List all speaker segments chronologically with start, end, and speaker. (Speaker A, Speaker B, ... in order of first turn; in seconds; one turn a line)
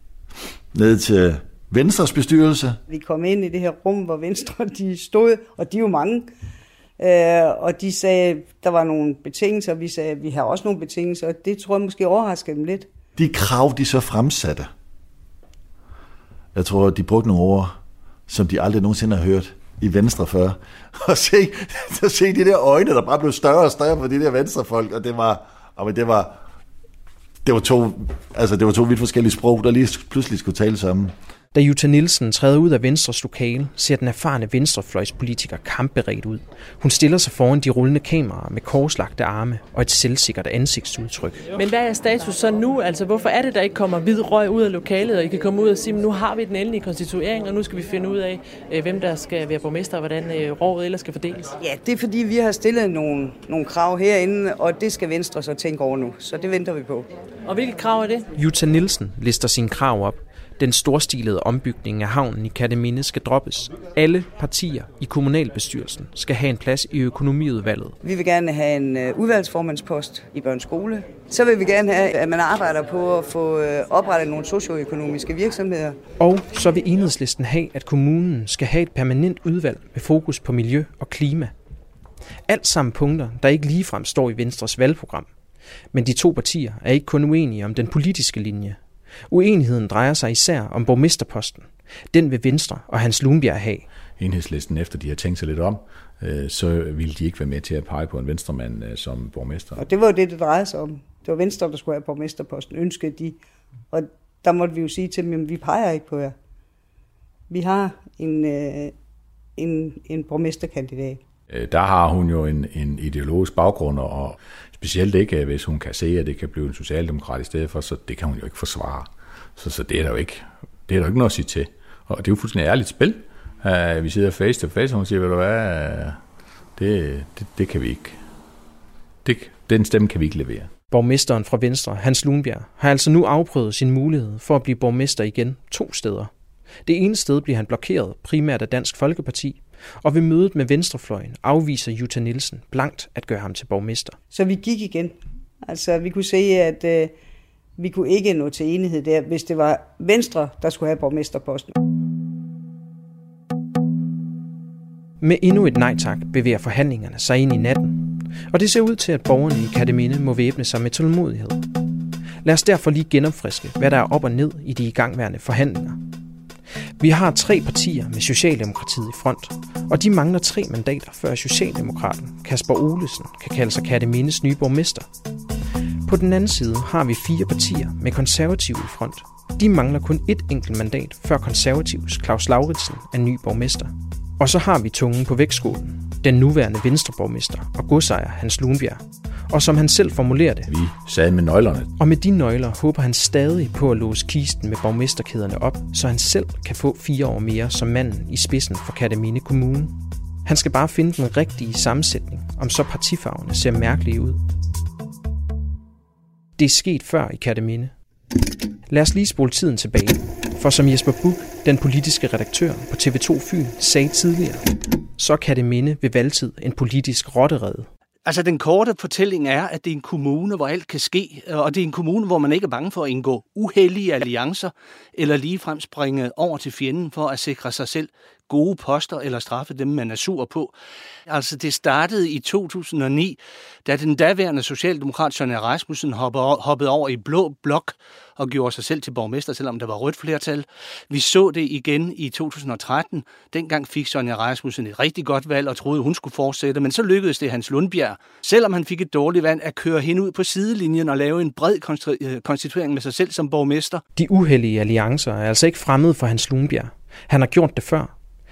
Speaker A: 0.7-2.8
Speaker B: 2.9-6.3
Speaker B: 7.0-12.9
Speaker A: 13.2-14.7
Speaker A: 16.5-17.8
Speaker A: 18.3-26.4
Speaker A: 27.4-31.1
Speaker C: 31.5-41.5
Speaker D: 41.5-51.5
Speaker B: 51.6-57.1
Speaker D: 57.4-58.3
Speaker C: 58.3-68.0
Speaker B: 68.0-76.0
Speaker C: 76.2-81.5
Speaker C: 82.5-85.3
Speaker C: 85.9-88.8
Speaker C: 89.3-93.8
Speaker E: 94.2-99.8
Speaker B: 99.8-103.4
Speaker B: 103.9-106.3
Speaker B: 107.5-108.9
Speaker B: 109.5-111.2
Speaker E: 111.5-126.2
Speaker E: 126.8-128.2
Speaker E: 129.2-130.7
Speaker C: 130.9-136.3
Speaker C: 136.8-144.2
Speaker B: 144.3-147.1
Speaker B: 147.8-151.7
Speaker C: 155.2-161.6
Speaker C: 162.4-166.0
Speaker C: 167.0-175.1
Speaker C: 176.1-190.7
Speaker E: 190.7-191.9
Speaker C: 192.0-199.9
Speaker C: 200.4-204.4
Speaker C: 206.6-207.9
Speaker C: 208.9-214.6
Speaker C: 215.2-217.9
Speaker F: 218.2-230.7
Speaker F: 231.3-254.0
Speaker C: 254.2-258.1